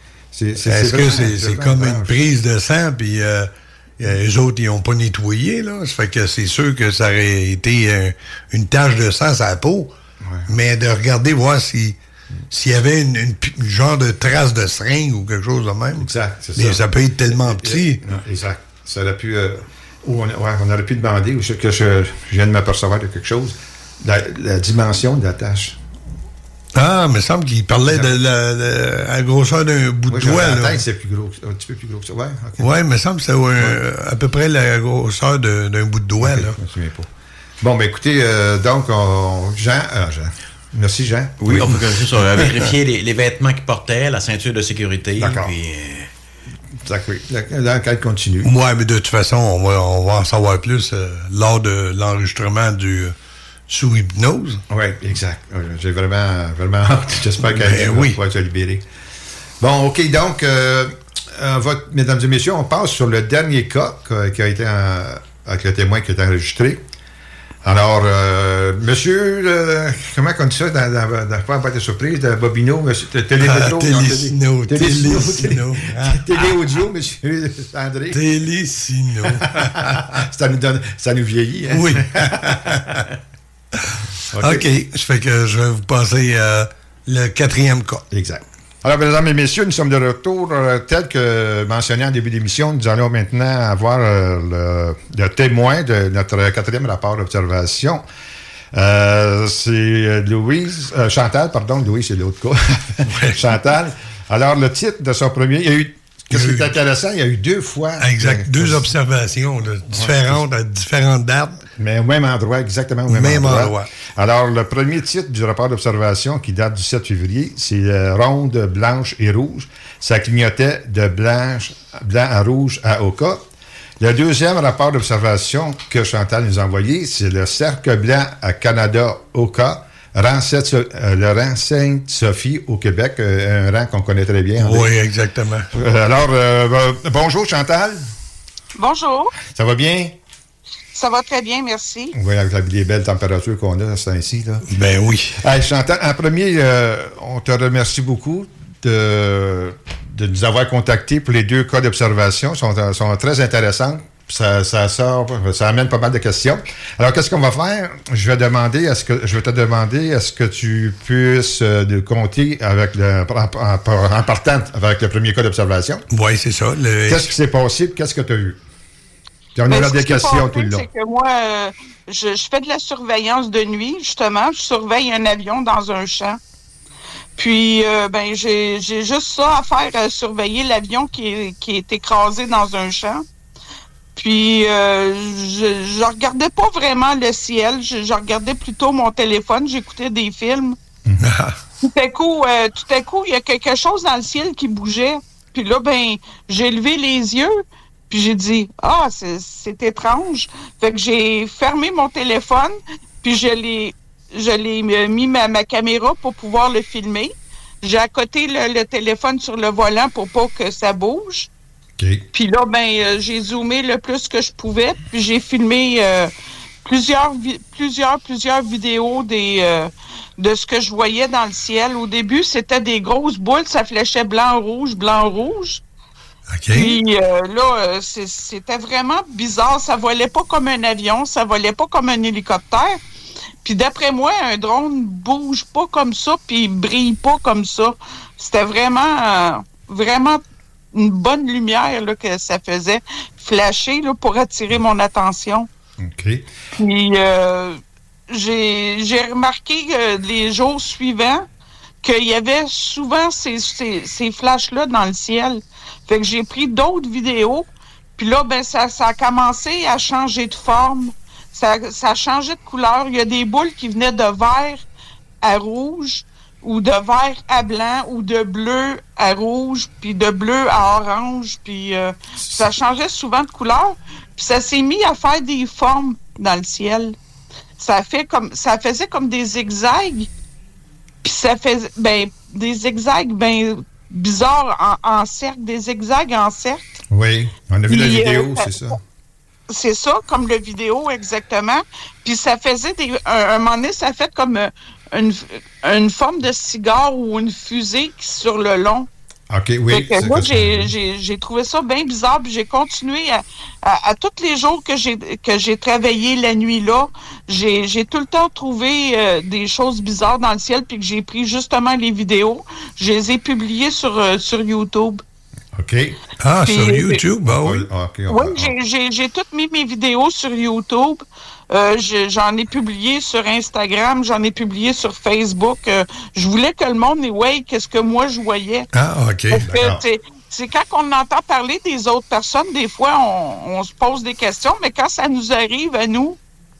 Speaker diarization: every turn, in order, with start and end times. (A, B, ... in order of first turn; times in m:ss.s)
0:00.3-0:02.2 A
0:00.6-0:09.9 B
0:10.2-0:10.5 A
0:10.5-0:12.0 B
0:12.5-0:18.0 B
0:16.0-0:25.8 A
0:26.7-0:30.8 B
0:30.1-0:32.7 A
0:32.6-0:36.6 B
0:36.2-0:37.1 A
0:37.6-0:41.8 A
0:41.4-0:46.1 C
0:45.2-0:45.5 A
0:46.8-0:48.5 A
0:48.4-0:53.1 B
0:53.7-0:54.6 B
0:54.7-0:58.8 A
0:57.4-0:58.2 B
0:59.6-1:06.8 A
1:07.6-1:18.2 A
1:13.4-1:16.2 B
1:18.1-1:20.1 B
1:19.3-1:23.1 A
1:21.7-1:23.0 B
1:24.0-1:28.0 B
1:24.3-1:24.7 A
1:28.1-1:38.0 A
1:38.7-1:48.9 A
1:43.1-1:43.4 B
1:46.3-1:46.7 B
1:48.0-1:51.6 B
1:49.9-1:50.4 A
1:51.8-2:03.4 A
1:53.1-1:53.9 B
2:04.0-2:14.9 A
2:14.6-2:15.7 B
2:15.7-2:18.0 A
2:18.8-2:19.3 D
2:19.4-2:20.2 A
2:20.9-2:22.1 D
2:22.1-2:24.7 A
2:24.7-2:25.4 B
2:25.4-2:46.0 A
2:46.1-2:47.3 B
2:47.1-2:48.6 A
2:49.6-2:50.9 A
2:49.7-2:56.4 D
2:57.4-3:03.2 D
3:04.2-3:10.8 D
3:11.2-3:11.6 B
3:11.8-3:31.5 D
3:32.0-3:32.3 A
3:32.3-3:36.3 D
3:36.8-3:45.8 D
3:46.5-3:47.0 B
3:46.7-3:53.0 D
3:53.6-4:00.4 D
4:00.9-4:05.7 D
4:06.0-4:06.5 A
4:06.8-4:11.5 D
4:12.0-4:24.8 D
4:25.4-4:37.2 D
4:32.4-4:32.7 A
4:37.8-4:40.3 D
4:41.2-4:46.8 D
4:47.1-4:49.0 A
4:47.9-4:48.9 D
4:49.7-4:59.1 D
4:59.5-5:00.9 A
4:59.9-5:15.2 D
5:15.7-5:16.2 A
5:16.4-5:17.9 B
5:16.6-5:17.2 D
5:17.4-5:18.8 A
5:18.3-5:28.9 D
5:28.9-5:29.7 B
5:29.5-5:36.4 D
5:29.6-5:30.0 A